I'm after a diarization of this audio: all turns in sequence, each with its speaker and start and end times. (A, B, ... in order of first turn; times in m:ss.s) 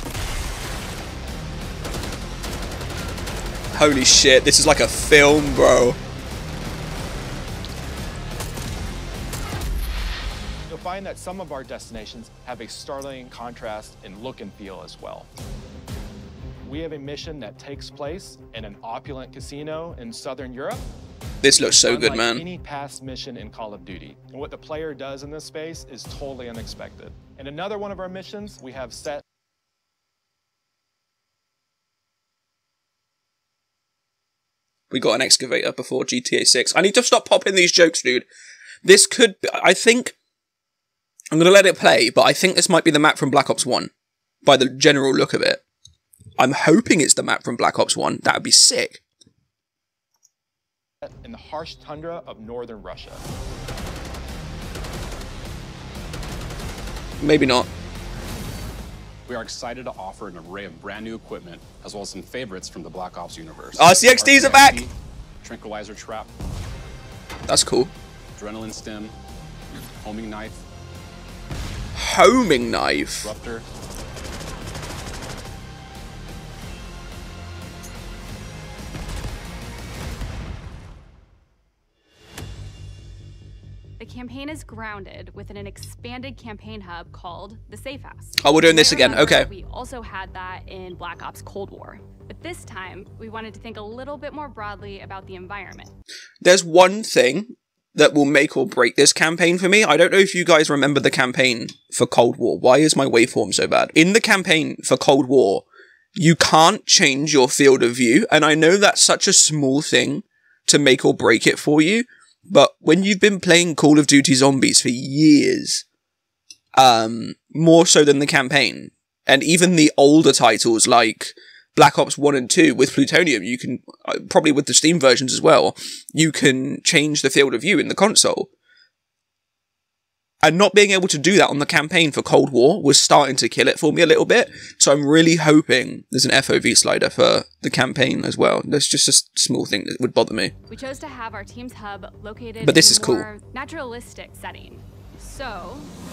0:03.7-0:06.0 A
0:10.7-0:15.3 B
0:16.6-0:20.8 B
0:21.4-0:22.4 A
0:21.6-0:29.2 B
0:34.9-0:38.2 A
0:38.8-0:40.1 A
0:41.3-0:43.9 A
0:44.4-0:45.6 A
0:46.4-0:49.0 A
0:51.0-0:53.2 B
0:57.2-0:57.7 A
0:59.2-1:06.3 C
1:03.8-1:04.8 A
1:07.5-1:07.9 A
1:08.4-1:09.1 C
1:10.0-1:10.6 C
1:11.9-1:13.3 A
1:13.2-1:13.6 C
1:24.0-1:35.9 D
1:28.4-1:29.5 A
1:36.4-1:45.6 A
1:46.2-1:55.8 A
1:56.7-2:08.5 A
2:10.4-2:20.5 A
2:20.7-2:25.9 D
2:22.6-2:23.3 A